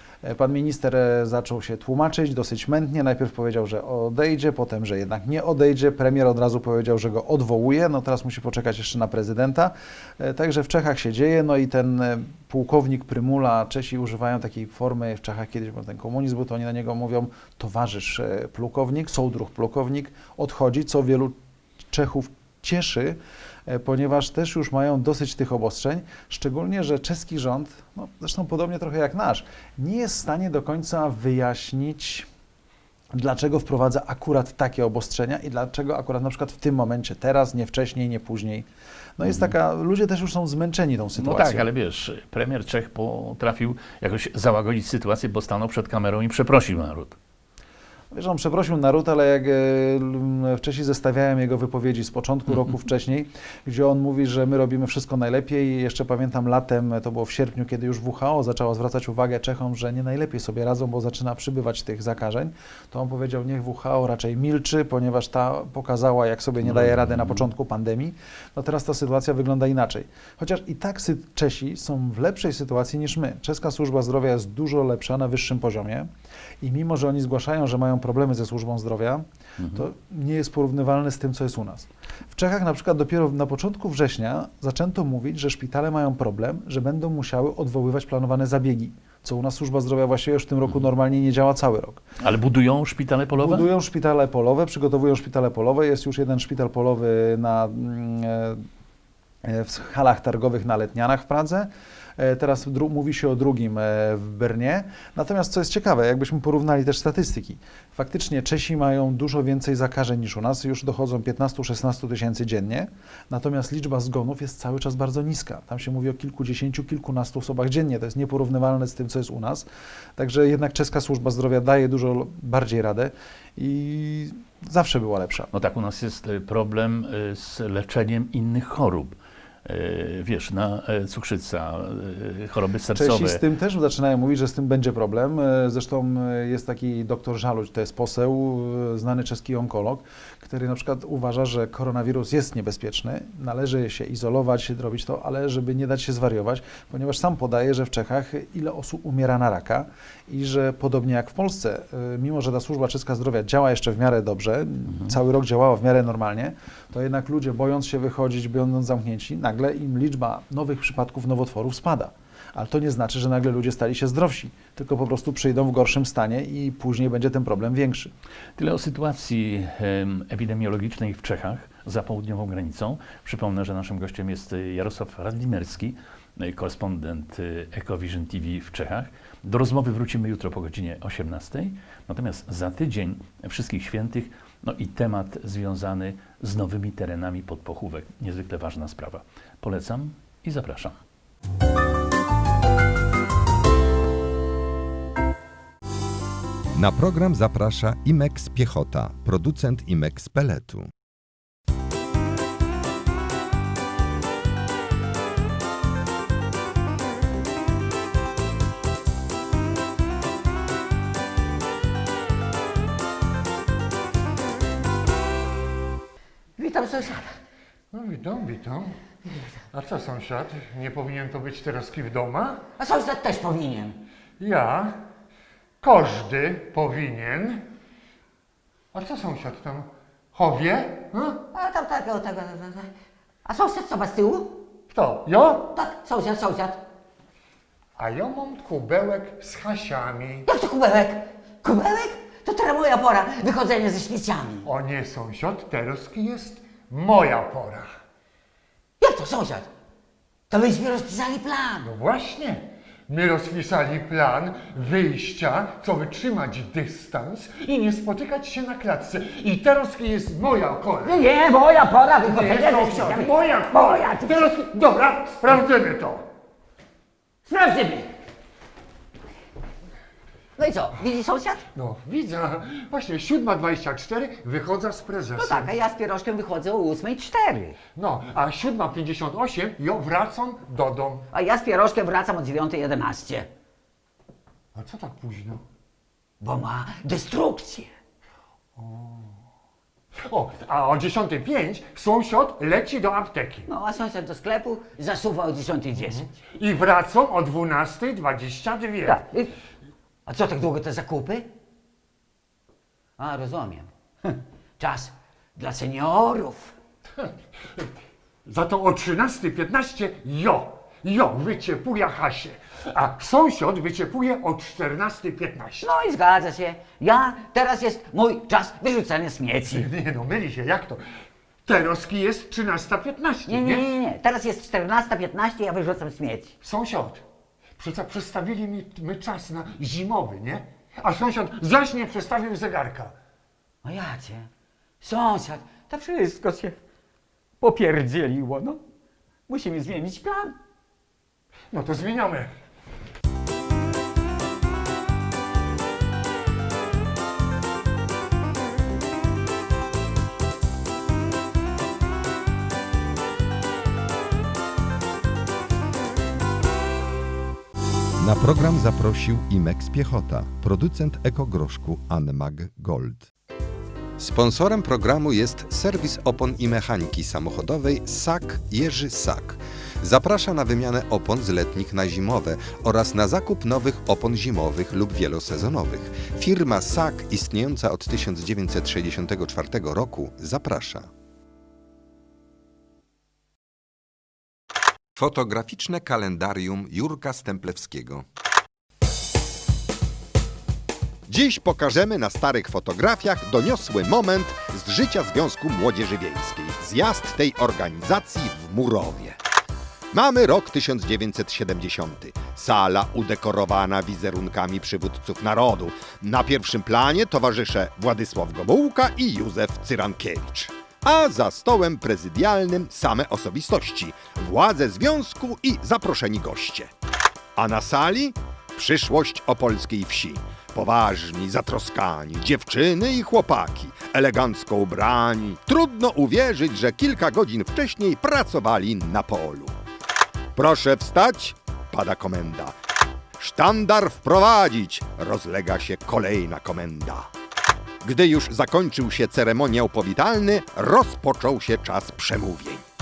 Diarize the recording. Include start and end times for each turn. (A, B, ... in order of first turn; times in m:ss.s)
0:00.2-0:21.3 A
0:21.9-0:32.3 A
0:33.2-0:41.7 A
0:39.2-0:39.6 B
0:41.2-0:47.2 B
0:48.1-1:16.1 A
1:06.6-1:07.5 B
1:16.6-1:32.0 A
1:19.6-1:19.9 B
1:32.2-1:33.7 B
1:33.4-1:38.6 A
1:39.4-2:05.5 A
2:05.5-2:13.4 B
2:12.9-2:48.1 A
2:34.9-2:35.2 B
2:48.6-3:11.0 B
3:16.8-3:20.9 C
3:36.6-3:37.4 D
3:37.9-3:38.9 E
3:39.7-3:42.6 E
3:42.8-3:44.0 D
3:44.4-3:45.0 E
3:45.8-3:47.7 E
3:48.9-3:51.4 E
3:51.5-3:52.9 D
3:53.4-3:54.7 D
3:54.9-3:55.7 E
3:55.7-3:56.8 D
3:58.0-4:00.4 E
4:00.5-4:04.7 D
4:04.7-4:07.9 E
4:09.0-4:09.7 D
4:10.5-4:11.9 D
4:11.9-4:21.1 E
4:21.0-4:24.7 D
4:22.2-4:26.2 E
4:27.5-4:28.1 D
4:30.6-4:31.7 D
4:31.8-4:35.6 E
4:35.3-4:37.8 D
4:38.0-4:41.2 E
4:41.3-4:43.5 D
4:44.8-4:45.6 E
4:46.4-4:47.9 D
4:48.8-4:49.3 E
4:50.3-4:53.7 E
4:53.7-4:56.4 D
4:56.1-4:59.2 E
4:59.1-4:59.6 D
5:00.3-5:01.5 D
5:03.2-5:06.8 D
5:07.2-5:07.9 E
5:08.4-5:15.9 E
5:15.8-5:19.9 D
5:19.7-5:21.0 E
5:21.6-5:23.9 E
5:23.5-5:26.5 D
5:26.6-5:27.2 E
5:27.8-5:33.2 E
5:33.8-5:34.5 D
5:35.0-5:36.8 D
5:37.6-5:38.8 D
5:39.5-5:40.6 D
5:41.7-5:42.5 E
5:58.2-6:03.3 C
6:04.2-6:21.1 C
6:25.2-6:28.2 C
6:31.3-6:39.4 C
6:40.1-6:56.9 C
6:57.6-7:09.8 C
7:10.6-7:12.8 C
7:13.4-7:17.3 C
7:18.0-7:22.8 C